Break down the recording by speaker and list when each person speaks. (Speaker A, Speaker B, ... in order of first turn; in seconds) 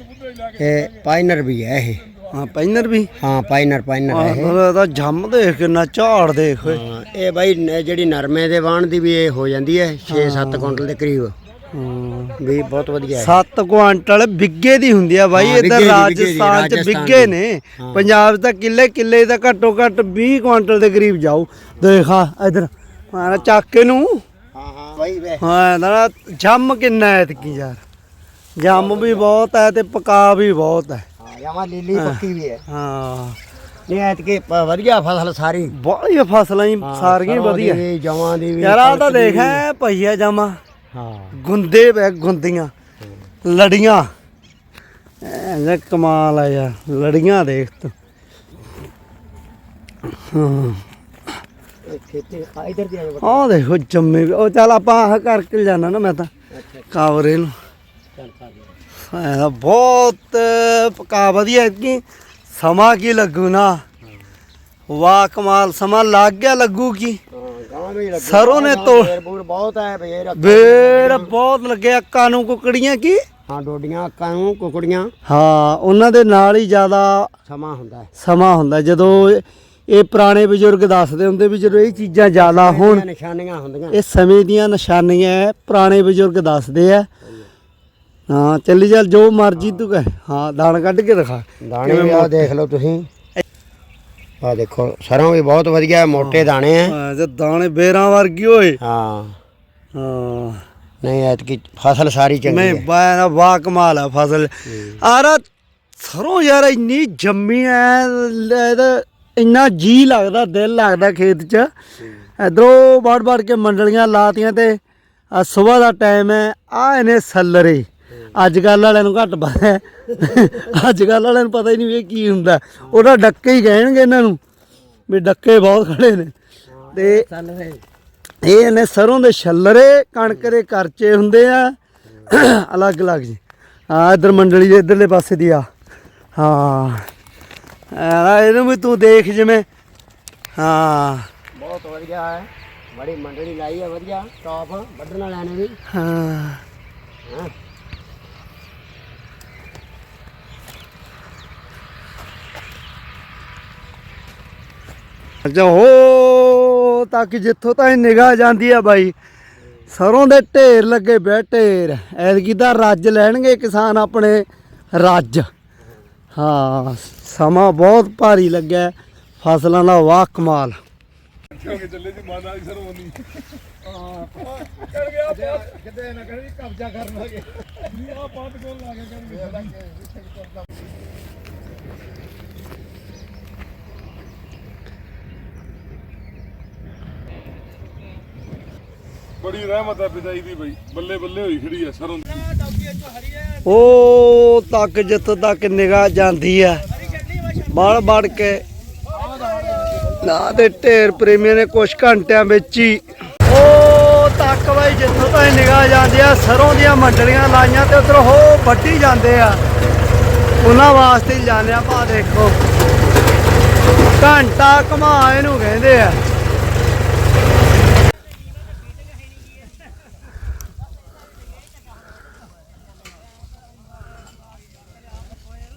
Speaker A: 0.6-2.0, 3.2-4.6, 6.6-11.3, 12.4-13.4, 15.3-18.1, 23.2-23.5, 24.5-25.4, 28.7-29.3, 31.2-32.6, 33.9-35.7, 36.8-39.6, 40.9-41.4, 43.0-43.3, 51.9-53.5, 56.5-56.9, 58.1-58.7, 67.3-71.3, 73.5-75.1, 77.5-78.1, 81.6-84.0, 87.2-87.5, 89.5-89.9, 91.6-93.1, 94.4-97.0, 98.8-99.4, 101.0-102.8, 104.7-105.0, 126.7-127.8, 141.6-145.8, 147.3-147.5
Speaker B: 2.3-3.1, 4.1-6.8, 10.1-10.8, 11.7-12.4, 13.2-24.2, 25.4-27.8, 28.6-31.1, 31.9-33.4, 35.7-37.8, 38.6-40.6, 41.4-42.7, 43.4-44.1, 45.2-47.9, 50.2-50.8, 53.2-56.3, 56.9-57.5, 59.1-63.8, 64.9-67.2, 68.2-69.2, 70.4-73.2, 75.3-77.3, 78.2-83.0, 83.9-87.1, 88.3-92.5, 96.2-98.8, 100.0-100.6, 102.5-105.4, 106.0-111.7, 112.4-114.8, 115.3-124.4, 125.1-126.3, 126.9-127.2, 128.4-131.8, 132.3-135.7, 136.4-137.1, 137.9-139.7, 140.6-141.3, 145.9-146.6, 155.4-159.1, 159.9-164.4, 165.0-165.5, 166.3-170.8, 193.7-196.8, 197.7-198.6, 200.1-209.6, 210.6-212.6, 214.2-216.2
Speaker C: 171.6-173.1, 189.4-192.3